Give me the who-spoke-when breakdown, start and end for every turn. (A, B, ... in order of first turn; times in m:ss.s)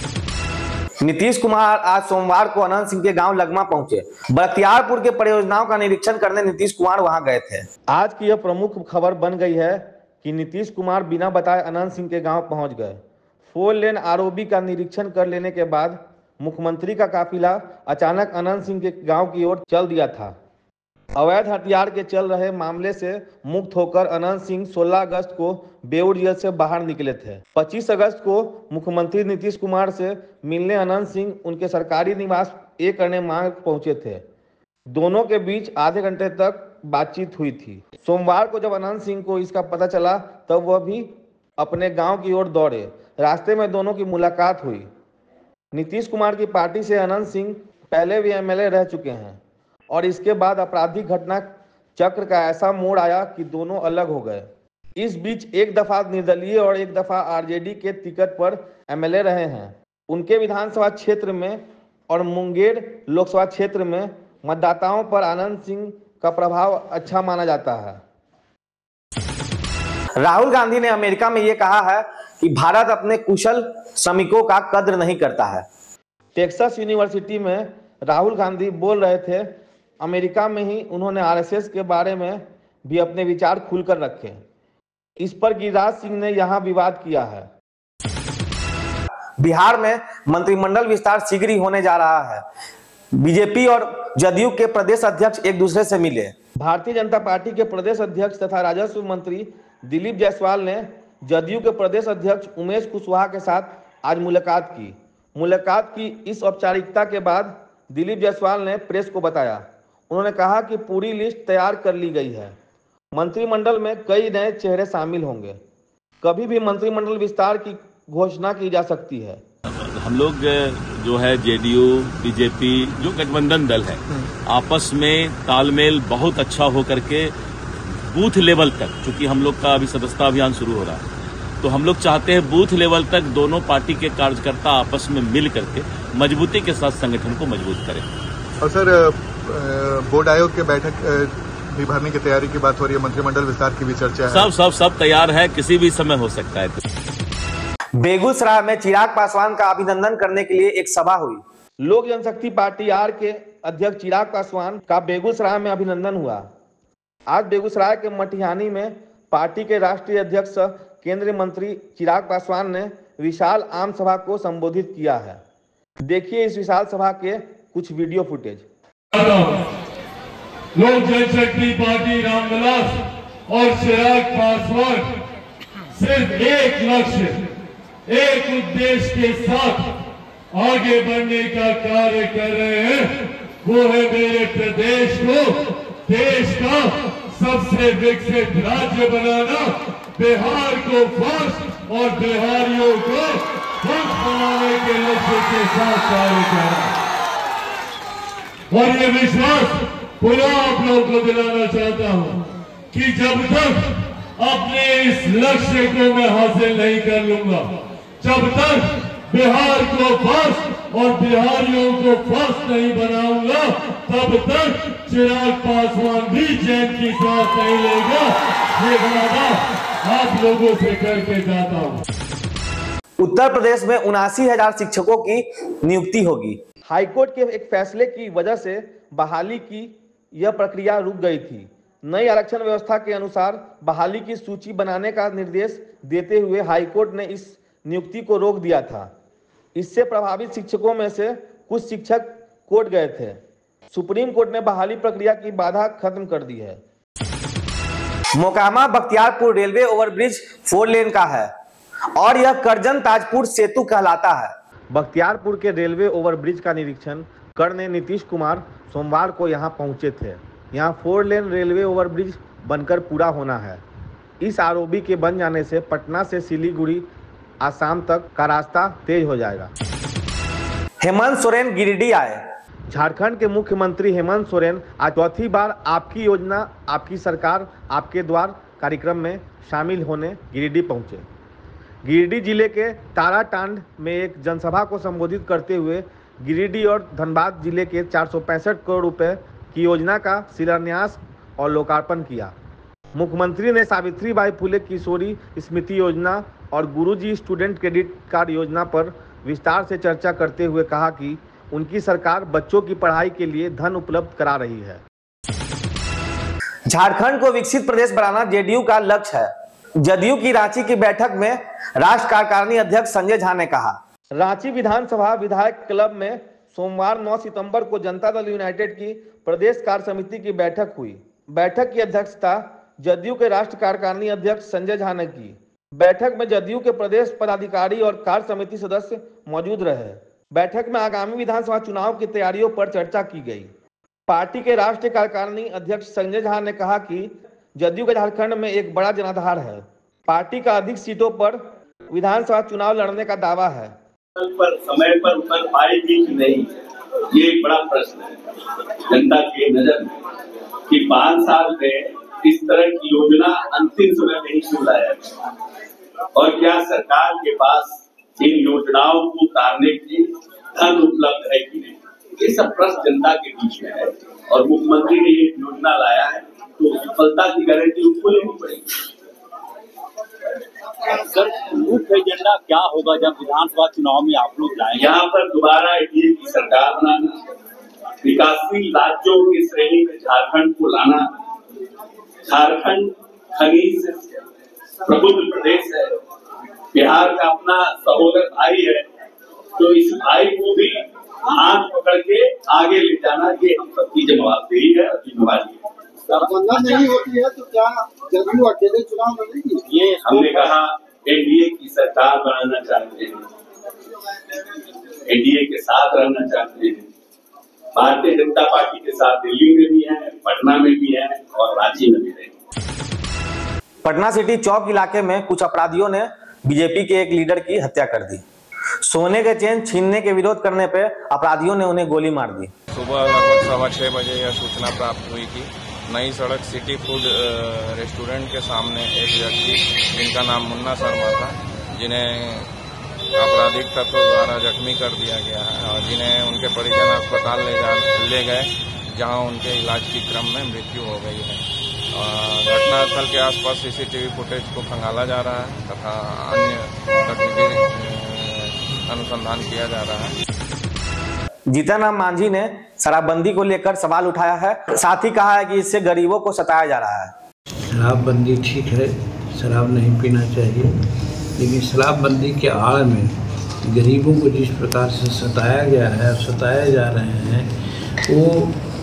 0:01.0-0:13.0 A
0:13.5-0:20.3 A
0:21.2-0:34.2 A
0:34.9-0:41.1 A
0:41.6-0:44.9 A
0:45.7-0:49.4 A
0:49.9-0:54.5 A
0:55.0-1:08.0 A
1:10.2-1:15.7 A
1:16.4-1:19.5 A
1:20.0-1:24.4 A
1:25.2-1:27.5 A
1:29.4-1:32.4 A
1:33.2-1:52.6 A
1:53.2-1:55.6 A
1:56.2-1:59.4 A
1:59.7-2:07.3 B
2:08.1-2:11.0 B
2:11.6-2:18.0 B
2:18.6-2:24.6 C
2:24.3-2:26.8 B
2:28.0-2:36.4 A
2:37.3-2:45.4 A
2:46.1-2:48.6 A
2:49.1-2:49.7 D
2:50.8-2:55.1 D
2:55.9-2:57.5 D
2:58.1-3:00.0 D
3:00.5-3:17.0 D
3:18.7-3:42.0 D
3:43.2-3:59.1 A
3:59.8-4:03.4 A
4:03.9-4:06.8 A
4:08.4-4:11.5 A
4:12.2-4:23.8 A
4:24.4-4:27.0 A
4:27.6-4:29.7 A
4:31.0-4:41.2 A
4:42.0-4:52.5 A
4:53.1-5:05.0 A
5:06.9-5:09.5 A
5:10.0-5:33.7 A
5:34.3-5:41.6 A
5:42.1-5:43.9 A
5:44.4-5:46.8 E
5:47.3-5:48.4 E
5:49.1-5:50.2 E
5:50.9-5:55.4 E
5:56.4-6:09.1 E
6:11.1-6:15.1 F
6:14.9-6:17.4 E
6:18.2-6:21.3 E
6:22.5-6:24.5 E
6:25.0-6:26.2 E
6:26.9-6:29.0 E
6:29.8-6:37.1 E
6:36.4-6:39.9 G
6:39.9-6:40.4 F
6:40.2-6:43.4 E
6:45.3-6:47.1 E
6:48.0-6:52.5 E
6:54.0-6:58.4 A
6:59.0-7:02.7 A
7:02.9-7:12.7 H
7:13.4-7:21.6 H
7:22.1-7:30.4 H
7:31.7-7:37.3 A
7:37.9-7:40.9 I
7:41.6-7:43.3 I
7:43.8-7:47.7 I
7:48.3-7:48.8 I